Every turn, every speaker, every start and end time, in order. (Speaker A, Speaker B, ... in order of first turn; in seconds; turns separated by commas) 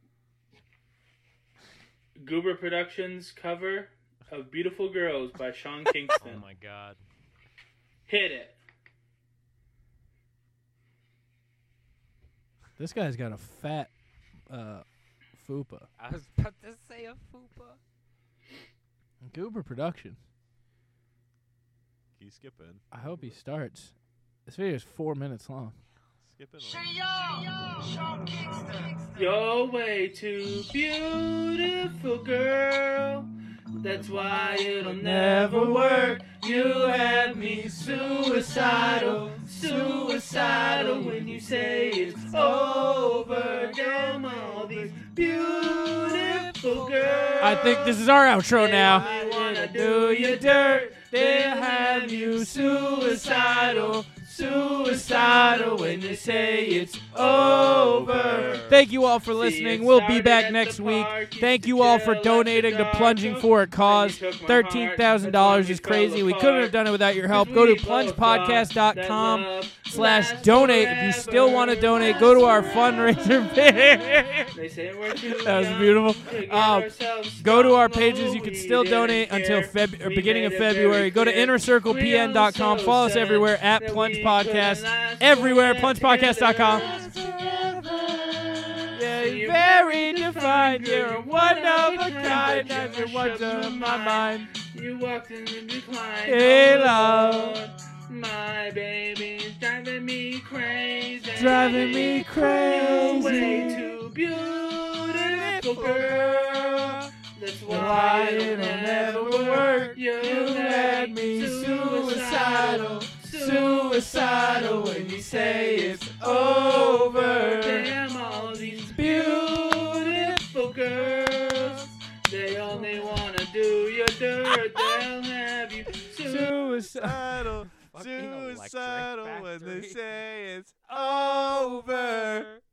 Speaker A: 2.2-6.4, Speaker B: 6.2-7.0, Speaker A: 8.1-8.6, Speaker C: 12.8-13.9, Speaker C: 14.5-15.9, Speaker B: 16.0-17.8, Speaker C: 19.2-20.2, Speaker D: 22.1-22.8, Speaker C: 22.9-23.9, Speaker C: 24.5-25.8, Speaker D: 26.2-27.0, Speaker A: 29.1-33.3, Speaker A: 33.8-87.1, Speaker C: 35.0-36.2, Speaker C: 38.1-41.4, Speaker C: 42.3-43.7, Speaker C: 47.4-74.5, Speaker D: 58.0-58.8, Speaker C: 75.2-86.9, Speaker B: 86.7-88.0, Speaker A: 88.6-126.8, Speaker C: 88.9-94.5, Speaker B: 92.5-92.7, Speaker C: 96.2-97.6, Speaker C: 101.3-103.9, Speaker C: 105.2-107.0, Speaker C: 107.7-117.9, Speaker C: 118.8-120.4, Speaker C: 124.7-125.0, Speaker C: 126.2-127.4, Speaker D: 126.9-132.5, Speaker B: 127.7-130.0, Speaker B: 130.9-132.6